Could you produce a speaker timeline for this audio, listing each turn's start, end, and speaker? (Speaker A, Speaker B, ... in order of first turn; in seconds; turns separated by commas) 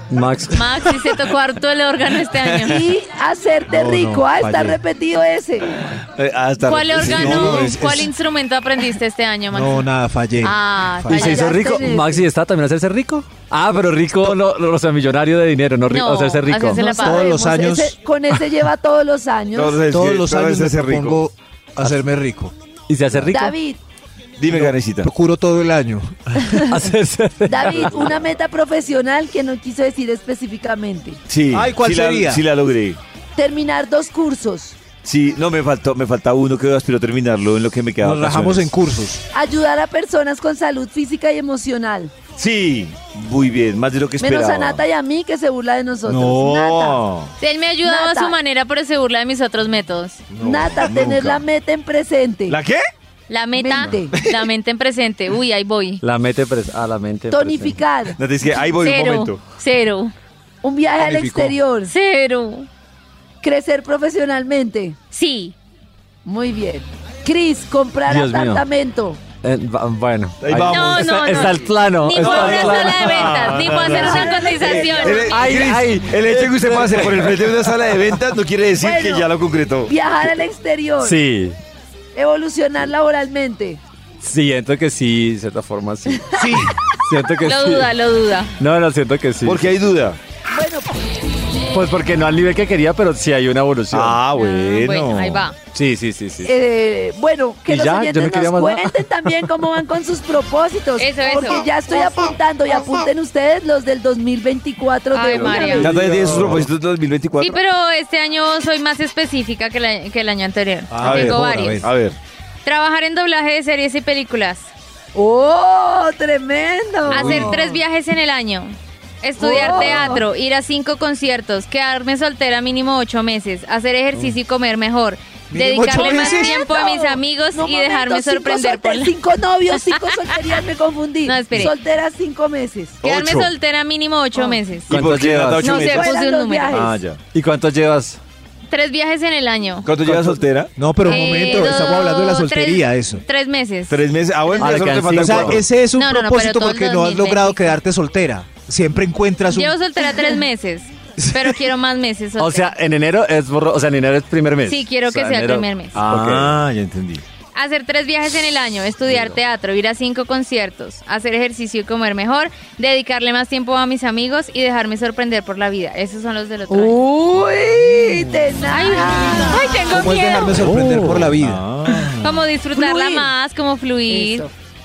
Speaker A: 0.1-0.7, Speaker B: 0.5-2.9, Speaker C: 2.6-5.7, Speaker D: 3.7-4.8, Speaker E: 6.2-7.6, Speaker B: 6.6-9.9, Speaker D: 7.0-8.1, Speaker D: 9.5-11.3, Speaker B: 10.4-11.6, Speaker A: 11.1-17.0, Speaker C: 11.1-12.2, Speaker B: 15.9-17.4, Speaker C: 16.8-19.8, Speaker D: 16.9-17.9, Speaker E: 19.5-21.2, Speaker D: 19.9-22.5, Speaker A: 22.9-23.6, Speaker C: 23.3-23.8, Speaker E: 24.4-25.1, Speaker D: 24.5-26.6, Speaker A: 26.6-28.1, Speaker C: 27.5-31.2, Speaker E: 31.3-33.0, Speaker D: 31.5-32.4, Speaker C: 33.4-34.8, Speaker E: 35.0-38.7, Speaker D: 38.0-39.2, Speaker C: 39.3-42.1, Speaker E: 42.4-44.8, Speaker C: 44.2-47.0, Speaker E: 46.1-47.3, Speaker B: 47.4-50.2, Speaker C: 47.8-48.3, Speaker E: 50.3-51.4, Speaker C: 50.4-52.6, Speaker E: 52.5-52.8, Speaker B: 53.3-56.0, Speaker C: 53.5-54.1, Speaker A: 56.0-57.8, Speaker C: 57.3-58.2, Speaker E: 58.2-59.4, Speaker B: 58.7-60.1, Speaker C: 60.6-61.9, Speaker D: 61.0-61.5, Speaker B: 61.9-62.7, Speaker C: 63.4-65.0, Speaker B: 65.1-65.5, Speaker C: 66.2-69.2, Speaker A: 68.1-68.6, Speaker A: 69.4-73.4, Speaker E: 70.4-71.5, Speaker B: 70.6-75.5, Speaker E: 72.2-79.9, Speaker C: 73.7-75.4, Speaker A: 75.3-77.5, Speaker C: 78.8-79.3, Speaker C: 79.9-81.2, Speaker A: 81.0-81.6, Speaker C: 82.1-83.8, Speaker A: 84.2-87.9, Speaker D: 86.4-86.7, Speaker B: 87.4-88.5, Speaker A: 88.6-89.7, Speaker E: 89.4-90.2, Speaker C: 90.5-90.9, Speaker A: 91.7-94.2, Speaker E: 93.9-95.5, Speaker B: 94.3-95.5, Speaker A: 95.7-96.5, Speaker C: 96.4-105.9, Speaker A: 97.7-99.4, Speaker B: 101.0-101.7, Speaker B: 105.1-105.9, Speaker E: 105.8-107.6, Speaker A: 105.8-106.7, Speaker B: 107.4-111.9, Speaker D: 110.9-111.9, Speaker E: 111.0-112.2, Speaker B: 112.6-114.7, Speaker C: 115.1-117.7, Speaker B: 117.1-129.1, Speaker D: 117.2-117.8, Speaker C: 119.4-120.2, Speaker D: 125.5-126.5, Speaker C: 126.0-133.0, Speaker B: 131.2-131.7, Speaker A: 133.0-133.5, Speaker B: 133.0-134.9, Speaker E: 134.9-136.1, Speaker A: 134.9-135.7, Speaker B: 135.6-136.9, Speaker C: 135.8-137.0, Speaker E: 136.7-137.2, Speaker A: 137.3-138.2, Speaker B: 138.7-139.9, Speaker E: 139.8-140.7, Speaker A: 140.0-140.4, Speaker D: 140.8-143.2, Speaker B: 141.0-144.8, Speaker E: 143.9-145.7, Speaker A: 144.6-145.6, Speaker D: 145.1-150.1, Speaker B: 145.9-147.7, Speaker B: 149.5-152.7, Speaker A: 152.4-156.6, Speaker B: 154.7-156.0, Speaker E: 156.0-157.2, Speaker B: 157.5-166.9, Speaker C: 166.7-169.7, Speaker B: 168.7-170.6, Speaker D: 169.8-171.6, Speaker A: 170.6-171.4, Speaker E: 171.3-172.4, Speaker B: 172.2-174.5, Speaker C: 172.7-173.3, Speaker C: 174.1-174.5